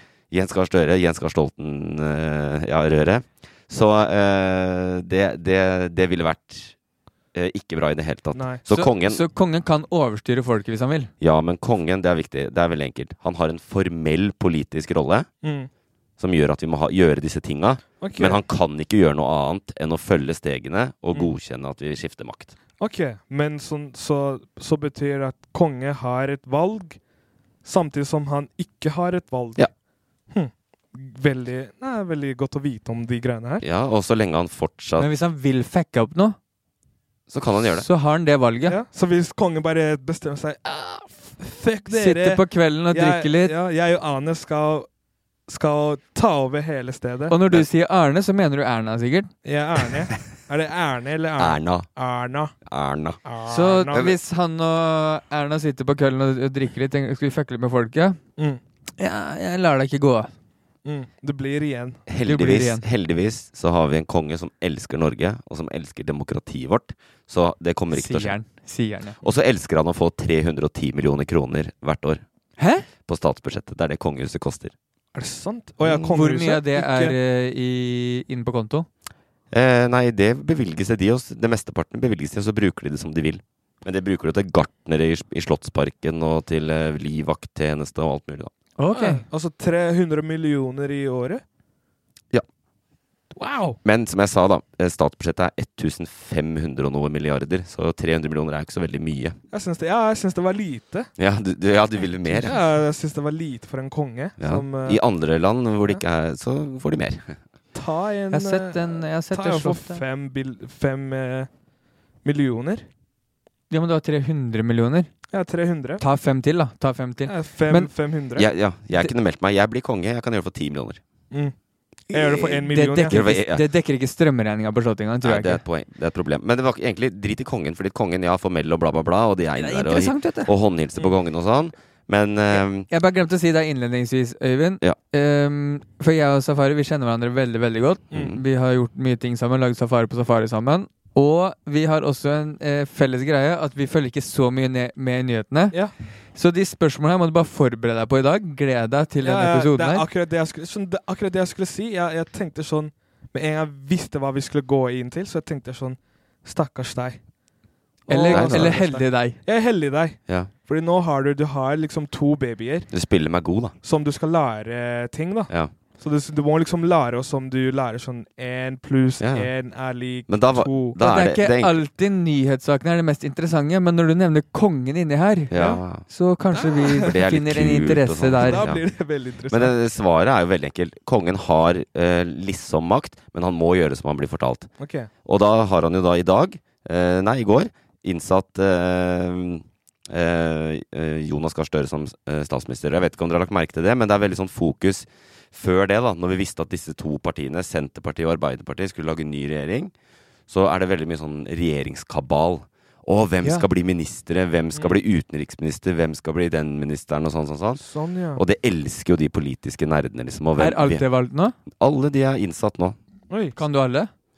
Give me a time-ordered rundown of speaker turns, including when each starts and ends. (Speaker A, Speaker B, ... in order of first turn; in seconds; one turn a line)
Speaker A: 0.3-6.8
Speaker A: 7.3-9.2
Speaker B: 8.3-8.6
Speaker C: 8.7-11.1
Speaker A: 11.2-15.3
Speaker B: 15.4-15.7
Speaker A: 16.2-22.6
Speaker B: 18.0-18.4
Speaker B: 22.8-27.0
Speaker B: 27.6-29.7
Speaker B: 30.3-33.6
Speaker A: 33.6-35.1
Speaker C: 35.0-36.4
Speaker A: 37.3-37.9
Speaker C: 37.8-38.8
Speaker B: 38.7-44.9
Speaker C: 41.9-43.5
Speaker B: 45.5-47.4
Speaker C: 47.3-49.3
Speaker B: 49.5-52.5
Speaker A: 51.4-51.9
Speaker A: 52.6-53.2
Speaker B: 53.2-54.1
Speaker C: 53.5-58.2
Speaker C: 59.0-60.3
Speaker B: 60.9-62.0
Speaker A: 62.1-68.4
Speaker C: 62.2-62.9
Speaker C: 67.9-69.2
Speaker A: 69.2-72.2
Speaker C: 72.6-72.9
Speaker A: 73.0-74.7
Speaker B: 75.1-77.2
Speaker C: 76.0-78.9
Speaker A: 79.5-88.5
Speaker C: 88.8-89.2
Speaker B: 88.9-91.4
Speaker B: 93.3-93.8
Speaker A: 93.8-99.4
Speaker B: 99.5-101.1
Speaker A: 101.2-102.6
Speaker B: 102.3-105.0
Speaker A: 104.4-107.4
Speaker B: 107.7-111.5
Speaker C: 108.3-110.0
Speaker B: 112.2-112.9
Speaker C: 113.7-115.1
Speaker B: 115.3-116.0
Speaker C: 116.0-117.9
Speaker B: 117.3-118.5
Speaker A: 118.4-121.0
Speaker B: 122.1-123.2
Speaker C: 122.4-125.6
Speaker A: 123.1-123.7
Speaker A: 125.2-132.9
Speaker C: 129.6-130.5
Speaker C: 132.9-145.8
Speaker A: 138.1-138.4
Speaker C: 146.3-150.1
Speaker B: 149.2-157.2
Speaker B: 158.1-162.9
Speaker C: 158.1-159.4
Speaker A: 158.3-158.8
Speaker A: 162.9-163.8
Speaker B: 163.8-171.0
Speaker A: 169.2-169.5
Speaker A: 170.3-171.8
Speaker C: 171.0-178.6
Speaker A: 175.5-176.1
Speaker B: 175.5-175.8
Speaker B: 176.5-177.2
Speaker A: 177.0-178.9
Speaker B: 178.4-179.7
Speaker A: 179.5-184.7
Speaker B: 184.8-185.1
Speaker A: 185.2-199.9
Speaker A: 200.5-207.8
Speaker B: 207.8-208.4
Speaker A: 208.3-211.1
Speaker C: 210.6-211.6
Speaker A: 211.7-213.0
Speaker B: 213.3-213.6
Speaker C: 213.6-214.1